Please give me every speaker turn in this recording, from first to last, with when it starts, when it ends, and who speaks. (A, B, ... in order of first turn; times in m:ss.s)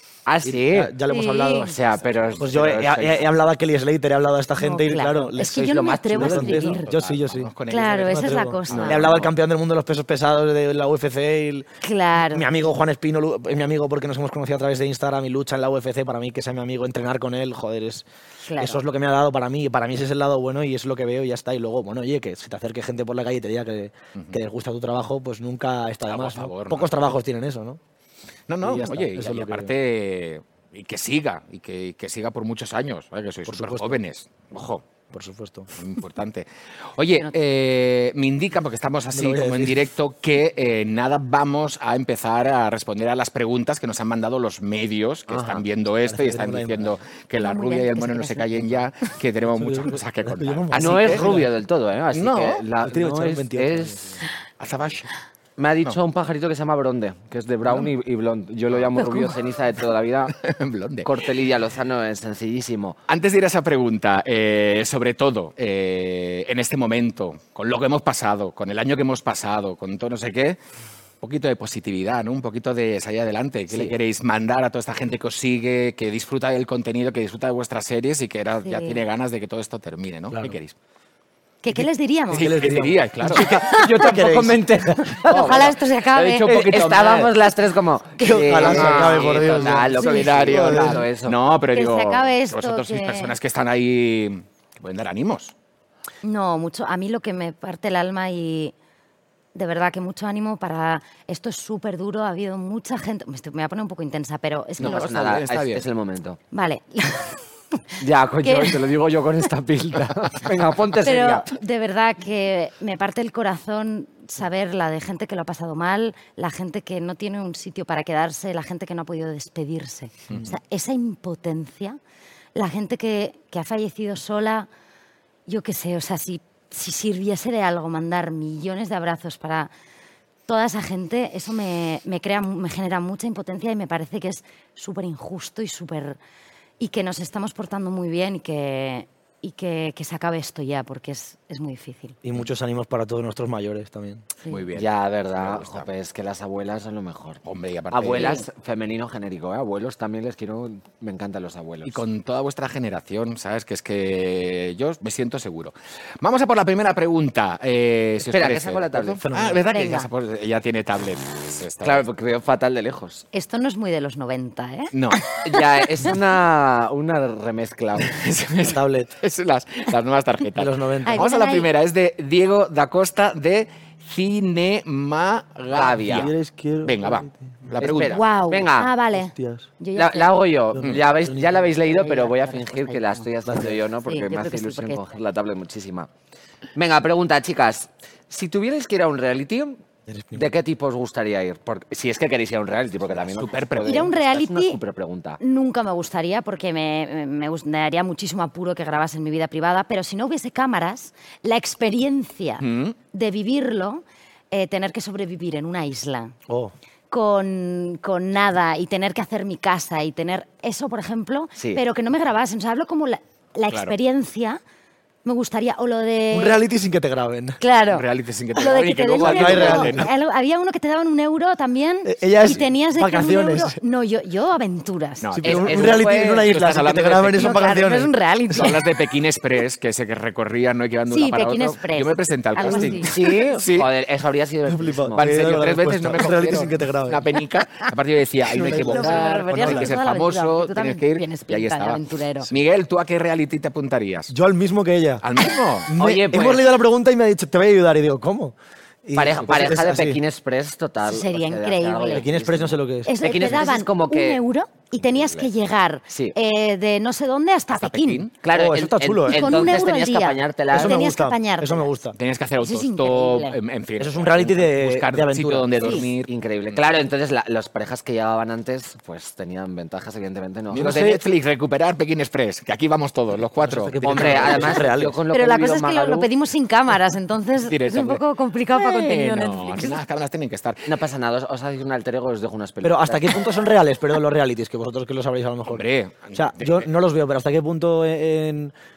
0:00.2-0:00.9 A
0:00.4-0:01.8 B
0:01.0-0:01.7 C
0:01.5-0:03.3 A
0:02.0-0:02.4 D
0:02.4-0:27.8 B
0:04.6-0:06.9 C
0:05.4-0:06.8 A
0:06.8-0:09.3 D
0:07.7-0:09.1 C
0:11.8-0:12.5 C
0:18.4-0:18.8 C
0:26.1-0:27.0 D
0:28.5-0:34.8 D
0:28.6-0:29.7 B
0:33.5-0:34.0 B
0:35.1-0:35.7 B
0:35.8-0:51.4 D
0:39.1-0:39.9 B
0:45.3-0:45.6 A
0:46.0-0:46.9 B
0:47.4-0:48.7 C
0:49.4-0:51.5 B
0:50.7-0:54.2 A
0:52.1-0:52.6 D
0:52.8-0:54.2 B
0:54.6-0:55.1 D
0:55.6-1:00.3 A
0:59.0-0:59.3 C
1:00.3-1:01.2 D
1:01.0-1:03.0 A
1:03.1-1:10.6 D
1:11.2-1:20.7 D
1:18.6-1:19.0 C
1:20.3-1:20.6 B
1:21.6-1:22.5 C
1:21.7-1:25.2 B
1:22.3-1:23.4 D
1:23.3-1:31.4 A
1:25.2-1:26.6 C
1:25.4-1:27.3 D
1:28.2-1:31.0 B
1:28.3-1:28.7 C
1:28.5-1:35.5 D
1:30.0-1:30.3 C
1:31.7-1:33.3 C
1:36.2-1:38.7 C
1:39.5-1:45.4 C
1:44.8-1:45.8 D
1:44.8-1:46.4 A
1:46.5-1:47.8 C
1:48.0-1:51.5 A
1:48.4-1:48.8 C
1:51.0-2:02.0 C
2:02.5-2:04.7 C
2:05.5-2:09.7 C
2:10.5-2:16.2 C
2:16.8-2:22.2 C
2:22.2-2:24.2 B
2:24.5-2:25.9 D
2:24.7-2:32.0 A
2:27.4-2:28.4 D
2:28.1-2:28.5 C
2:31.8-2:42.0 D
2:38.2-2:39.2 A
2:39.2-2:39.6 B
2:39.6-2:40.1 C
2:41.8-2:43.2 A
2:43.3-2:45.6 C
2:44.9-2:45.3 D
2:45.4-2:48.1 A
2:48.0-2:56.3 D
2:48.6-2:49.1 B
2:50.5-2:51.2 B
2:51.0-2:51.7 C
2:55.7-2:56.3 A
2:56.0-2:57.6 B
2:56.8-2:58.2 D
2:57.8-2:58.9 A
2:58.0-3:00.4 C
2:59.1-2:59.7 B
2:59.9-3:06.1 A
3:00.7-3:01.9 B
3:02.0-3:03.2 C
3:03.4-3:03.8 B
3:04.0-3:05.0 C
3:06.7-3:09.8 A
3:10.1-3:10.5 B
3:10.3-3:15.4 A
3:13.1-3:14.2 D
3:13.8-3:14.8 C
3:15.4-3:26.3 C
3:22.6-3:23.0 D
3:26.5-3:26.7 B
3:27.1-3:34.6 C
3:31.6-3:31.8 A
3:33.7-3:33.9 D
3:35.2-3:36.6 C
3:36.3-3:37.6 B
3:37.6-3:45.4 C
3:37.9-3:40.1 D
3:39.2-3:40.1 B
3:42.0-3:43.8 B
3:45.2-3:47.7 D
3:45.4-3:48.7 B
3:45.4-3:46.5 A
3:47.3-3:48.8 C
3:48.5-3:53.9 D
3:51.1-3:53.1 C
3:52.7-3:55.6 A
3:54.7-3:57.2 B
3:55.2-4:04.3 D
3:58.5-3:59.9 B
3:58.6-4:02.5 C
4:04.3-4:05.2 B
4:05.2-4:05.9 D
4:05.8-4:10.2 B
4:06.0-4:06.7 A
4:09.1-4:14.4 A
4:11.0-4:12.2 C
4:12.1-4:13.5 B
4:13.0-4:18.3 C
4:15.0-4:15.5 A
4:16.1-4:16.4 A
4:17.7-4:18.3 D
4:18.4-4:21.0 A
4:18.5-4:19.8 B
4:19.2-4:21.9 C
4:20.7-4:22.2 B
4:22.2-4:26.8 D
4:22.6-4:23.6 C
4:24.0-4:26.1 B
4:25.8-4:26.1 C
4:26.2-4:31.2 A
4:30.7-4:34.8 D
4:30.8-4:31.2 B
4:33.6-4:35.2 B
4:34.0-4:36.3 A
4:35.3-4:40.0 C
4:37.6-4:41.0 D
4:40.8-4:43.4 A
4:42.8-4:48.7 B
4:45.7-4:46.9 D